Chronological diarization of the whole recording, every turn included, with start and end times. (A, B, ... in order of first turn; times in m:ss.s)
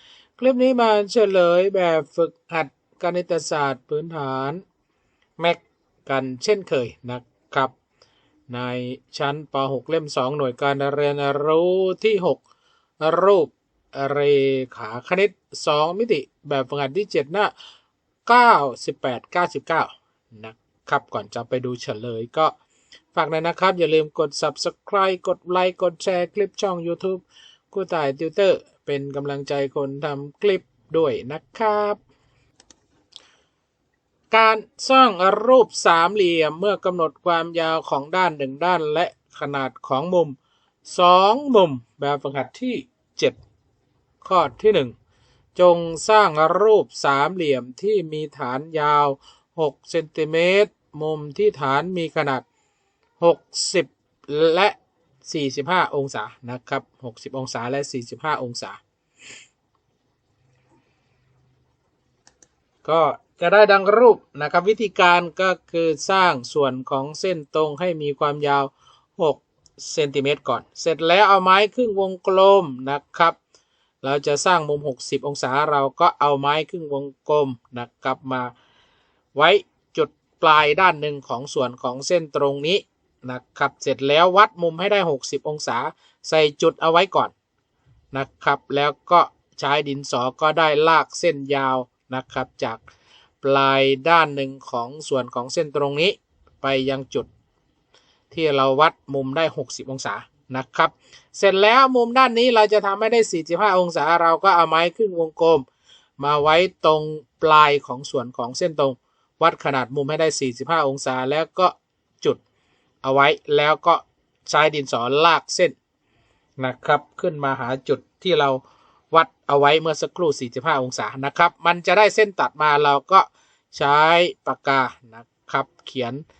0:00.4-0:04.6 A
0:05.4-0:07.7 A
0:08.5-0:12.4 A
0:13.0-0:17.5 A
0:18.2-0:22.5 A
0:23.1-0:32.0 A
0:34.3-0:43.4 A
0:44.2-0:44.9 A
0:45.6-0:52.4 A
0:53.2-0:58.8 A
1:02.8-1:13.4 A
1:14.0-1:18.5 A
1:19.3-1:27.3 A
1:28.1-1:32.8 A
1:33.4-1:37.3 A
1:38.3-1:45.6 A
1:46.2-1:52.4 A
1:53.0-1:55.7 A
1:56.6-1:58.6 A
1:59.1-2:06.2 A